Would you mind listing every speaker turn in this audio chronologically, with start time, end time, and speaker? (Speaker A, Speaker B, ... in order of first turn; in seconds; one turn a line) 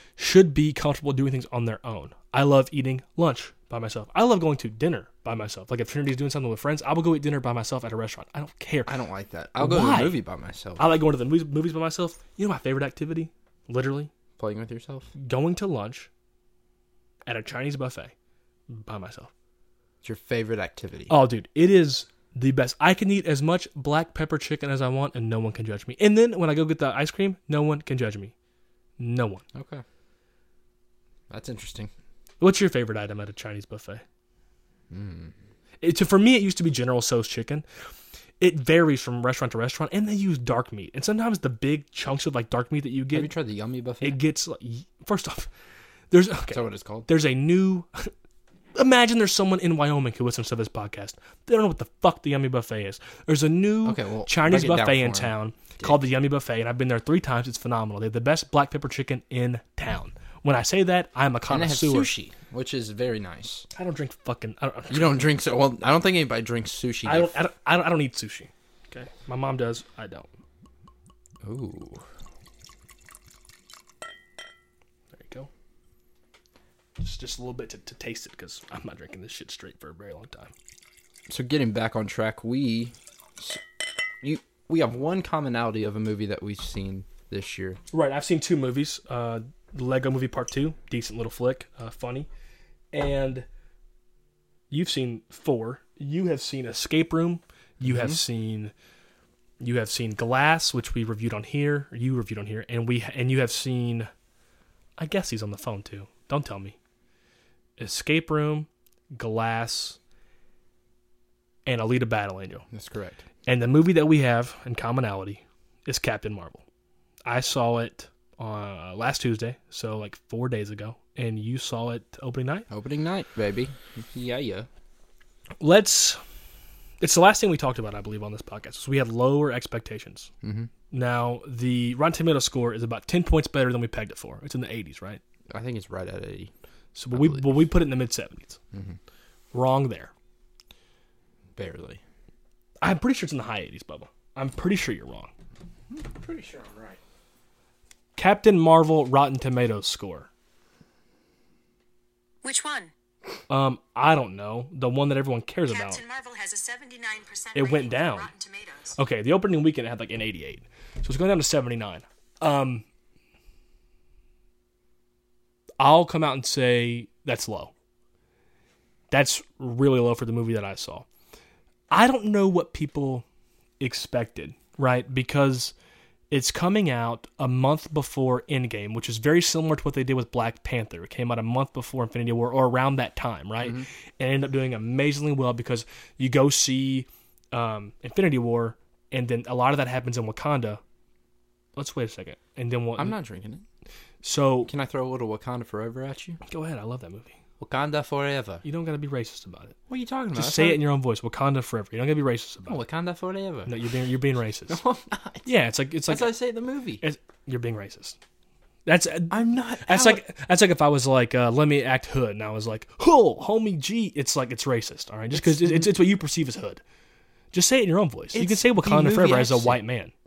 Speaker A: 0.2-8.9
Speaker B: 8.8-10.9
Speaker A: 9.6-10.2
Speaker A: 10.8-14.1
Speaker B: 14.4-15.1
Speaker A: 15.2-16.1
Speaker A: 17.2-18.1
Speaker A: 18.7-19.3
Speaker B: 20.0-21.1
Speaker A: 21.1-28.3
Speaker A: 29.0-29.4
Speaker B: 29.5-29.8
Speaker B: 31.3-31.9
Speaker A: 32.4-34.0
Speaker B: 34.9-35.3
Speaker A: 35.8-37.6
Speaker A: 38.4-43.3
Speaker B: 43.1-44.2
Speaker A: 44.0-45.5
Speaker A: 46.1-48.1
Speaker B: 46.5-47.1
Speaker A: 48.7-62.1
Speaker B: 53.8-56.0
Speaker B: 61.5-63.7
Speaker A: 63.7-65.3
Speaker B: 64.9-67.3
Speaker A: 67.0-70.3
Speaker B: 71.4-72.0
Speaker A: 75.1-75.5
Speaker A: 77.0-80.5
Speaker B: 81.3-83.6
Speaker B: 84.2-87.8
Speaker A: 87.9-92.3
Speaker A: 92.9-93.5
Speaker A: 94.7-98.7
Speaker B: 97.8-98.2
Speaker A: 99.6-104.1
Speaker A: 105.0-106.8
Speaker A: 107.8-110.0
Speaker A: 111.7-112.7
Speaker B: 112.7-113.2
Speaker A: 113.5-116.6
Speaker A: 117.2-122.7
Speaker B: 122.7-124.7
Speaker A: 125.6-126.2
Speaker A: 127.0-130.3
Speaker B: 130.4-130.7
Speaker A: 130.9-135.2
Speaker B: 135.5-136.5
Speaker A: 136.9-138.6
Speaker B: 137.1-137.7
Speaker B: 138.7-139.0
Speaker A: 139.5-140.1
Speaker B: 141.5-142.0
Speaker A: 142.8-145.3
Speaker B: 145.9-147.0
Speaker A: 148.2-150.3
Speaker C: 152.4-152.9
Speaker A: 153.5-156.0
Speaker C: 155.7-158.9
Speaker A: 157.5-158.3
Speaker A: 158.9-162.8
Speaker A: 165.8-167.7
Speaker A: 169.1-171.0
Speaker A: 171.9-173.2
Speaker A: 173.8-175.7
Speaker A: 176.3-190.8
Speaker B: 183.6-183.9
Speaker A: 191.8-193.2
Speaker B: 193.0-193.6
Speaker A: 194.2-194.7
Speaker B: 194.6-196.4
Speaker A: 196.4-197.3
Speaker B: 197.6-198.6
Speaker A: 198.6-199.8
Speaker B: 199.9-200.8
Speaker A: 200.3-202.8
Speaker B: 202.7-203.7
Speaker A: 203.7-204.8
Speaker B: 204.7-205.5
Speaker A: 205.4-206.4
Speaker B: 206.1-207.0
Speaker A: 207.0-208.2
Speaker A: 208.8-216.8
Speaker B: 209.3-210.2
Speaker B: 215.3-215.9
Speaker A: 217.5-220.1
Speaker B: 218.3-219.8